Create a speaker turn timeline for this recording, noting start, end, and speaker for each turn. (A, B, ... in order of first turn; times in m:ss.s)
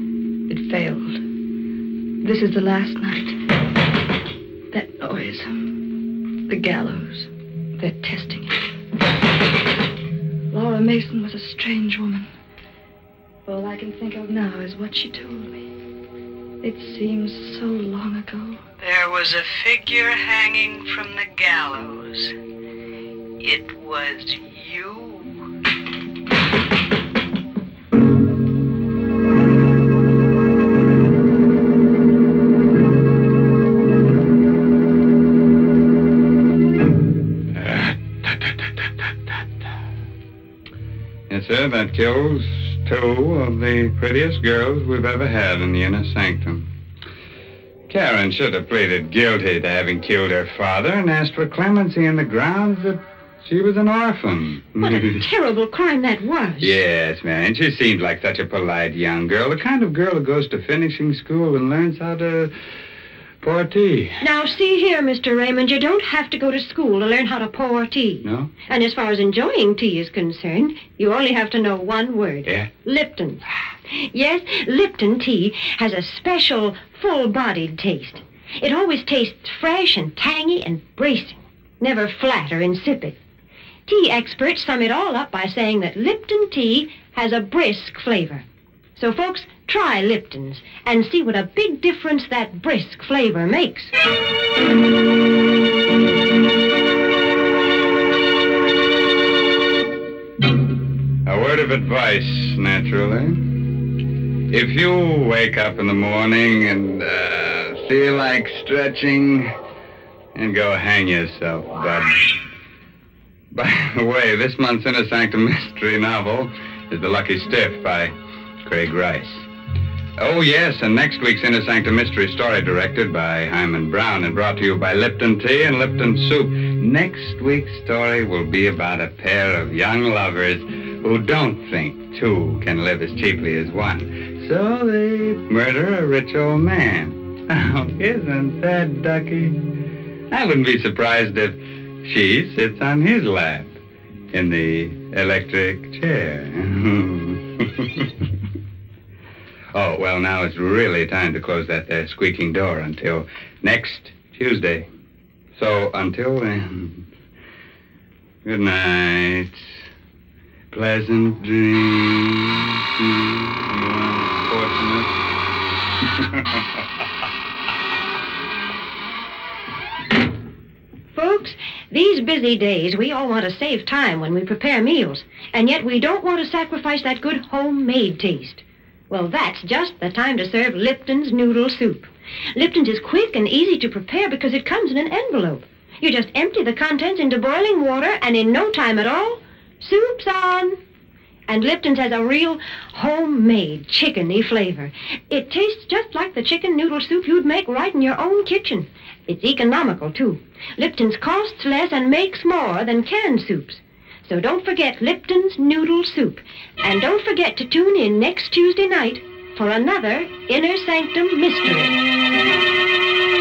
0:00.5-0:01.2 A
0:02.2-0:03.4 A
0:04.7-0:08.6 A
0:10.5-0:12.3 A
0:13.4-0:15.7 A
0:16.6-0:18.6 A
0:18.8-0:22.3 B
0:23.4-0:25.4 B
0:37.6-0:38.5 C
0:41.3-0:46.6 C
0:47.9-0:55.2 C
0:54.8-0:56.8 D
0:56.6-1:02.5 C
1:03.4-1:04.2 C
1:04.2-1:13.4 D
1:08.2-1:08.5 C
1:14.0-1:23.2 D
1:23.9-1:28.4 D
1:29.0-1:33.9 D
1:41.2-1:43.4 C
1:44.5-1:49.5 C
1:50.4-1:52.4 C
1:53.5-1:59.4 C
2:00.2-2:19.8 C
2:20.3-2:23.8 C
2:24.3-2:28.2 C
2:29.7-2:34.9 C
2:35.6-2:37.0 C
2:38.4-2:39.6 C
2:40.7-2:45.1 C
2:46.2-2:46.6 C
2:51.1-3:10.8 D
3:11.5-3:31.9 D